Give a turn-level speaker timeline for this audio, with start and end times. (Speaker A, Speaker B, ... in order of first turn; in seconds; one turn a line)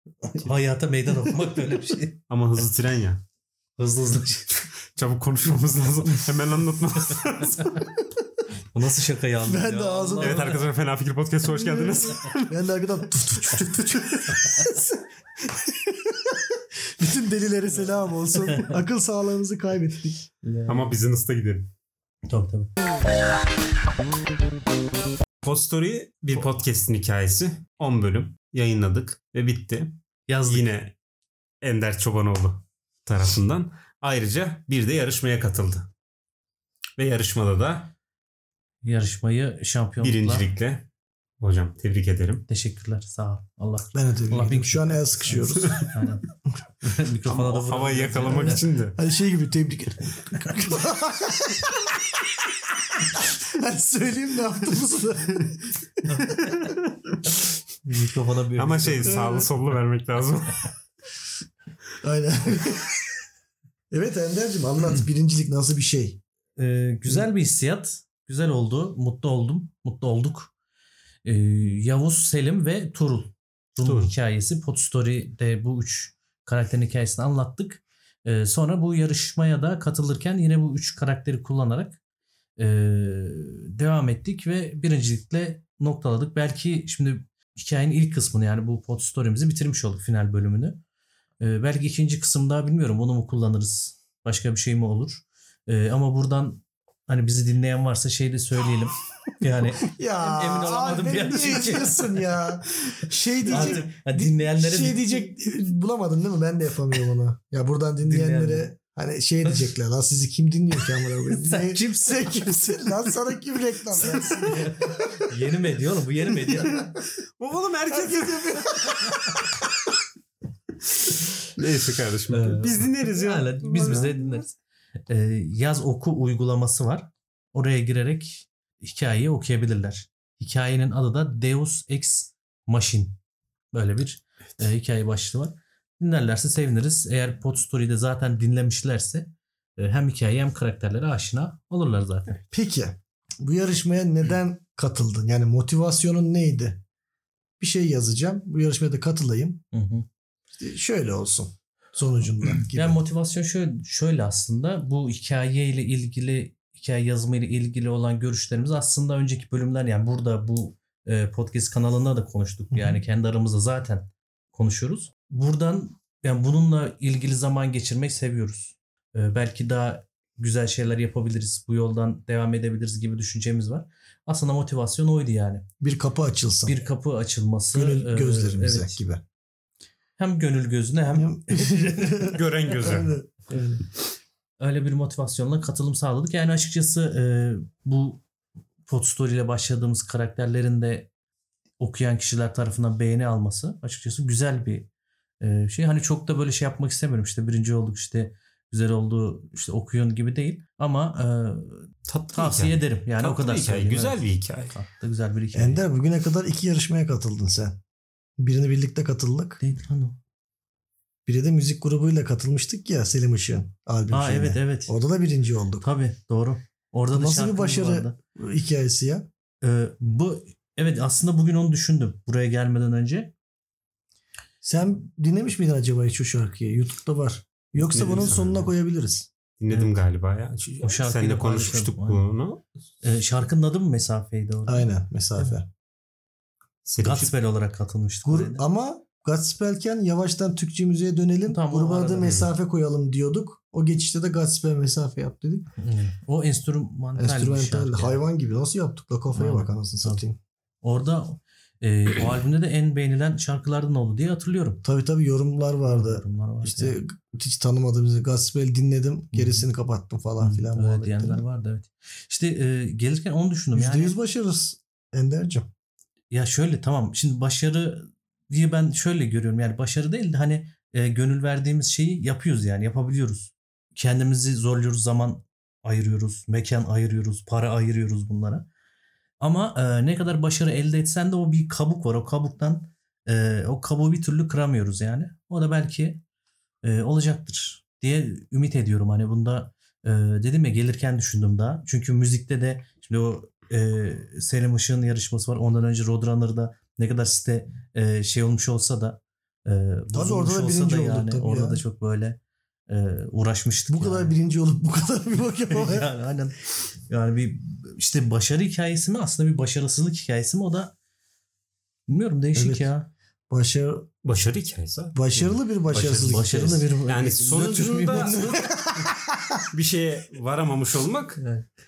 Speaker A: 0.3-2.2
Speaker B: 2.3-3.2
Speaker A: 3.8-4.6
Speaker B: 5.0-7.8
Speaker A: 8.7-10.6
Speaker C: 9.5-10.5
Speaker B: 10.2-12.5
Speaker C: 11.6-20.2
Speaker A: 18.5-18.8
Speaker A: 20.4-20.9
Speaker B: 20.7-21.7
Speaker A: 22.3-22.7
Speaker B: 25.4-30.9
Speaker A: 30.3-30.7
Speaker B: 31.6-35.9
Speaker B: 37.0-37.9
Speaker A: 38.8-40.5
Speaker B: 40.0-40.9
Speaker B: 41.4-42.5
Speaker A: 42.5-46.3
Speaker C: 43.9-45.9
Speaker B: 45.6-45.9
Speaker A: 46.8-48.6
Speaker B: 47.3-49.0
Speaker C: 48.5-56.8
Speaker A: 56.1-56.6
Speaker A: 57.9-59.5
Speaker B: 58.6-60.7
Speaker C: 59.1-59.5
Speaker C: 62.0-63.0
Speaker C: 63.9-66.2
Speaker A: 66.6-70.5
Speaker A: 71.2-82.0
Speaker B: 73.8-74.1
Speaker A: 82.6-90.8
Speaker A: 91.4-102.1
Speaker C: 99.9-115.3
Speaker A: 103.5-105.2
Speaker A: 108.0-108.7
Speaker A: 111.3-112.4
Speaker B: 114.0-114.7
Speaker A: 114.5-116.9
Speaker B: 117.4-119.3
Speaker C: 117.9-119.6
Speaker B: 121.0-124.3
Speaker A: 122.3-124.6
Speaker A: 125.1-133.2
Speaker A: 133.7-142.4
Speaker C: 142.5-146.8
Speaker C: 147.6-149.6
Speaker A: 149.7-150.1
Speaker C: 150.6-153.0
Speaker A: 152.7-175.7
Speaker C: 162.7-163.0
Speaker C: 175.8-176.8
Speaker A: 176.7-179.0
Speaker C: 177.7-179.2
Speaker A: 180.2-182.4
Speaker C: 181.1-183.6
Speaker B: 182.3-183.2
Speaker A: 183.5-183.8
Speaker A: 184.6-188.2
Speaker A: 188.9-191.1
Speaker A: 191.8-194.9
Speaker A: 195.4-205.8
Speaker B: 202.1-204.7
Speaker C: 205.5-207.8
Speaker C: 208.4-209.6
Speaker A: 209.6-210.2
Speaker C: 211.3-215.9
Speaker A: 214.1-215.0
Speaker A: 215.8-218.2
Speaker C: 217.1-219.3
Speaker A: 219.6-223.3
Speaker C: 224.6-229.3
Speaker B: 227.8-228.7
Speaker A: 227.9-228.2
Speaker B: 229.6-232.6
Speaker A: 229.7-230.0
Speaker A: 230.8-232.2
Speaker A: 233.0-235.5
Speaker C: 234.7-235.7
Speaker B: 236.8-237.3
Speaker A: 237.0-238.7
Speaker C: 238.2-245.7
Speaker A: 241.5-242.4
Speaker B: 242.2-242.5
Speaker A: 245.8-248.2
Speaker C: 247.2-250.4
Speaker A: 249.3-250.2
Speaker A: 250.8-254.8
Speaker C: 254.8-261.4
Speaker A: 255.9-257.0
Speaker A: 259.3-259.7
Speaker A: 260.4-264.2
Speaker C: 263.8-265.7
Speaker A: 266.3-278.7
Speaker A: 279.4-286.2
Speaker A: 286.8-304.3
Speaker C: 300.1-301.8
Speaker C: 303.9-306.1
Speaker A: 305.7-306.6
Speaker A: 307.1-310.9
Speaker A: 312.1-313.1
Speaker C: 312.6-312.9
Speaker C: 313.5-314.1
Speaker B: 314.2-315.2
Speaker C: 315.1-316.9
Speaker A: 315.4-318.8
Speaker B: 316.1-318.6
Speaker C: 318.1-319.7
Speaker B: 319.7-321.4
Speaker A: 321.4-321.7